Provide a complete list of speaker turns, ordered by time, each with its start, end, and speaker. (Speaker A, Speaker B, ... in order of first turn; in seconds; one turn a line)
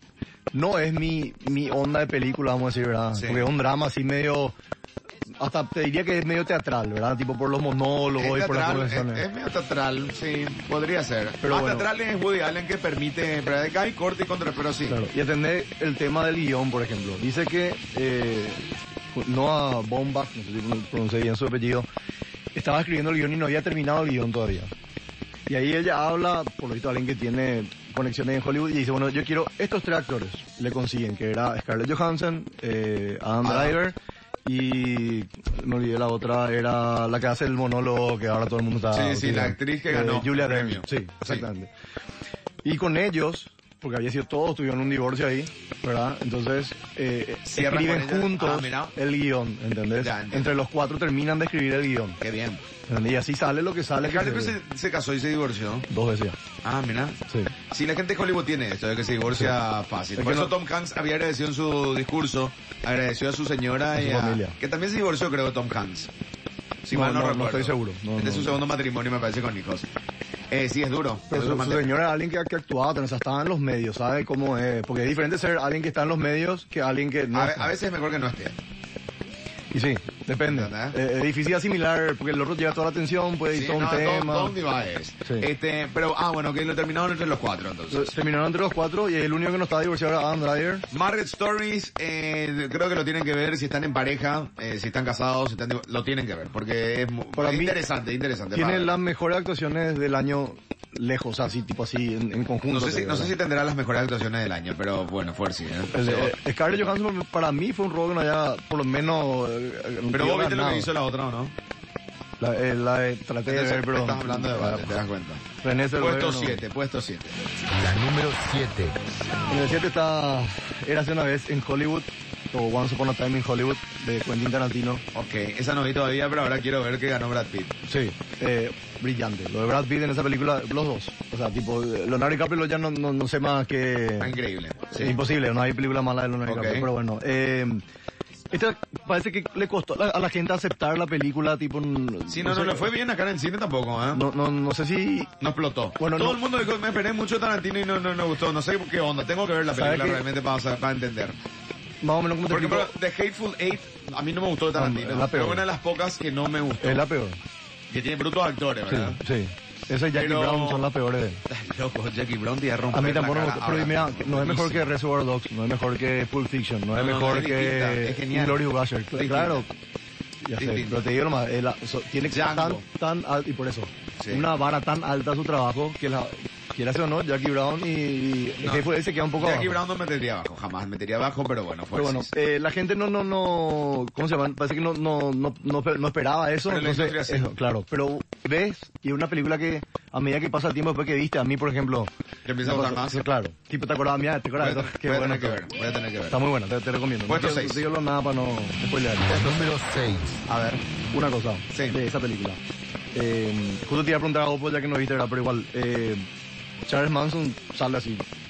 Speaker A: 0.5-4.5
Speaker B: 3.1-3.5
Speaker A: 5.4-9.2
Speaker B: 8.2-15.0
Speaker A: 11.4-11.9
Speaker A: 14.9-18.6
Speaker A: 19.1-21.9
Speaker A: 22.5-24.7
Speaker A: 25.5-33.9
Speaker B: 33.4-33.8
Speaker A: 34.5-41.7
Speaker B: 38.9-41.5
Speaker A: 42.6-52.2
Speaker B: 47.4-48.9
Speaker B: 50.0-50.5
Speaker B: 52.2-52.6
Speaker A: 52.9-54.5
Speaker B: 54.0-55.9
Speaker A: 55.9-56.4
Speaker B: 56.6-57.2
Speaker B: 57.7-66.1
Speaker A: 60.1-60.5
Speaker A: 64.0-64.5
Speaker B: 66.8-69.9
Speaker A: 66.9-68.6
Speaker B: 70.5-71.9
Speaker A: 71.3-77.7
Speaker B: 77.3-78.6
Speaker A: 79.7-84.5
Speaker B: 80.5-81.0
Speaker B: 83.5-88.1
Speaker A: 87.9-90.8
Speaker B: 90.9-98.9
Speaker A: 97.3-97.8
Speaker A: 98.5-103.3
Speaker B: 102.7-106.4
Speaker A: 105.9-110.9
Speaker B: 110.1-111.5
Speaker A: 112.4-115.0
Speaker B: 113.5-115.4
Speaker A: 115.6-116.6
Speaker B: 116.0-117.3
Speaker C: 117.7-119.0
Speaker A: 119.5-125.0
Speaker B: 125.1-127.8
Speaker A: 127.8-134.3
Speaker B: 134.2-135.2
Speaker A: 134.9-137.8
Speaker B: 136.5-136.9
Speaker A: 138.5-142.9
Speaker B: 142.3-144.2
Speaker A: 144.1-145.3
Speaker B: 145.4-151.4
Speaker A: 146.0-146.4
Speaker A: 149.7-150.2
Speaker A: 152.0-152.9
Speaker B: 152.4-157.0
Speaker A: 154.8-155.7
Speaker A: 156.8-157.4
Speaker B: 157.9-159.2
Speaker A: 158.9-161.4
Speaker B: 160.1-160.8
Speaker B: 161.5-164.9
Speaker A: 162.9-169.7
Speaker B: 166.9-168.6
Speaker B: 169.2-169.7
Speaker A: 170.4-179.8
Speaker B: 170.6-171.1
Speaker B: 172.2-172.8
Speaker B: 174.2-174.5
Speaker B: 178.6-182.3
Speaker A: 181.9-192.1
Speaker B: 186.6-187.5
Speaker B: 192.4-193.2
Speaker A: 192.6-195.6
Speaker B: 194.6-196.4
Speaker A: 196.3-199.6
Speaker B: 197.3-197.8
Speaker C: 199.2-200.4
Speaker B: 200.5-200.8
Speaker A: 201.1-202.6
Speaker B: 201.7-202.0
Speaker A: 203.1-206.2
Speaker A: 206.9-208.2